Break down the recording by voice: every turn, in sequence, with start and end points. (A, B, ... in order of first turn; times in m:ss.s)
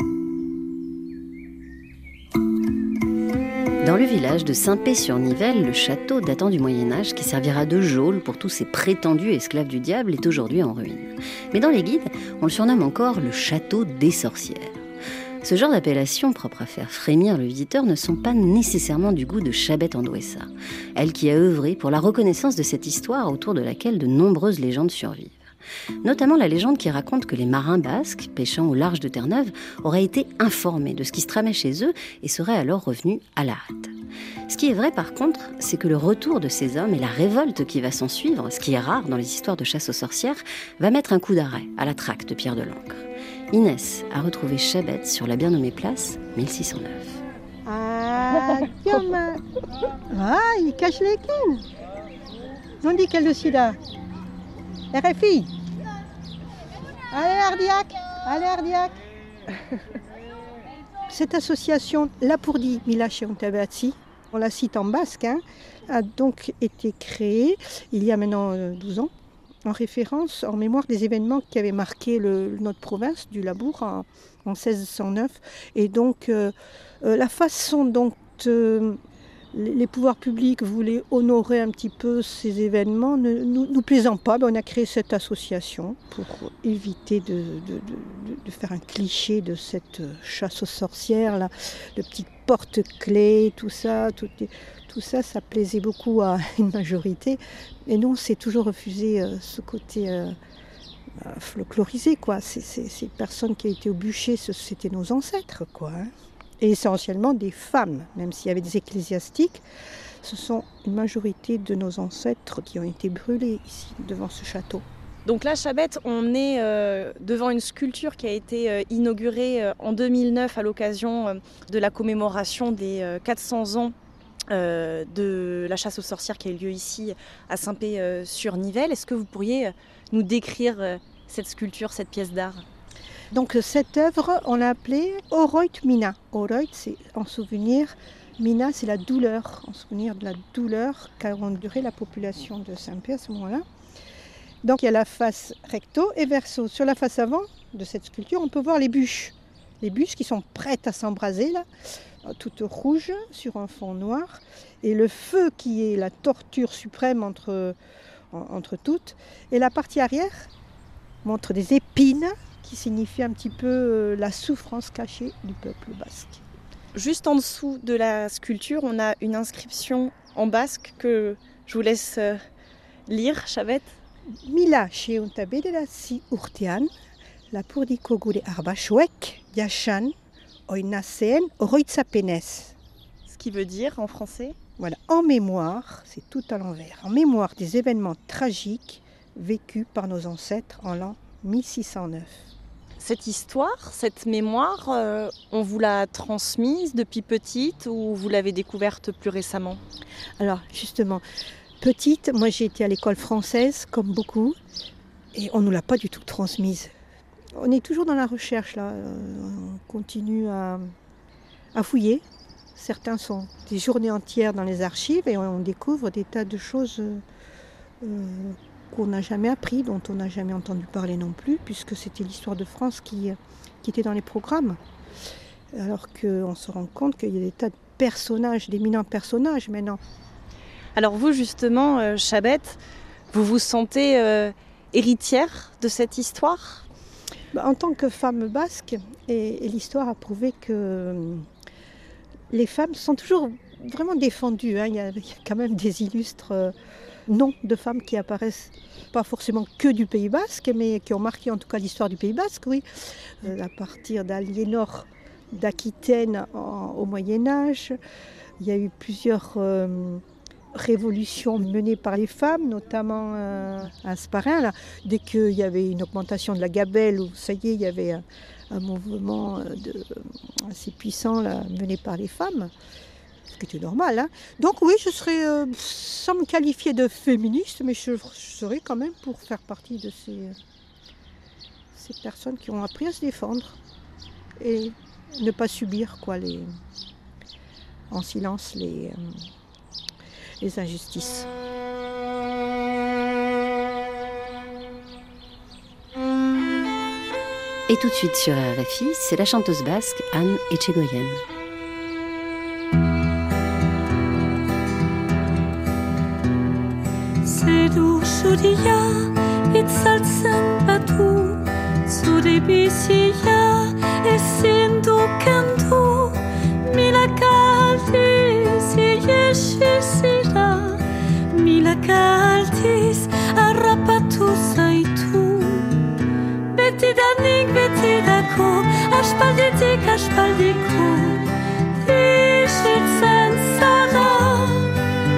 0:03.8-0:14.8 A
0:15.4-0:25.4 A
0:26.0-0:33.9 A
0:34.5-0:47.2 A
0:47.7-0:49.4 B
0:50.1-0:51.6 B
0:52.8-0:53.8 B
0:54.9-0:55.5 B
0:57.1-0:59.0 B
1:01.1-1:09.1 B
1:09.6-1:19.0 B
1:19.5-1:40.4 B
1:41.2-1:49.6 B
1:50.2-1:54.8 B
1:55.3-2:03.9 C
2:04.5-2:12.6 C
2:13.3-2:23.6 B
2:24.6-2:31.6 B
2:32.2-2:37.8 B
2:38.3-2:40.5 B
2:41.2-2:46.4 B
2:47.0-2:52.4 C
2:53.1-2:53.9 C
2:54.5-2:56.9 B
2:57.5-3:00.1 B
3:00.7-3:02.8 B
3:03.3-3:04.6 C
3:04.8-3:12.5 B
3:13.0-3:19.8 C
3:20.4-3:21.2 B
3:21.8-3:24.6 B
3:25.4-3:26.9 B
3:27.5-3:30.9 B
3:31.7-3:32.2 B
3:32.8-3:37.2 B
3:38.0-3:44.8 B
3:45.7-3:50.0 B
3:51.0-3:52.8 C
3:53.3-3:56.8 C
3:57.5-4:01.5 B
4:02.5-4:06.8 B
4:07.3-4:12.8 B
4:13.4-4:18.0 B
4:18.6-4:20.2 B
4:20.7-4:32.7 B
4:33.5-4:40.6 B
4:42.0-4:43.8 B
4:44.6-4:46.7 B
4:48.1-4:49.4 B
4:50.6-4:51.5 B
4:57.9-5:01.4 A
5:07.4-5:26.0 D
5:26.7-5:31.5 D
5:32.0-5:34.9 D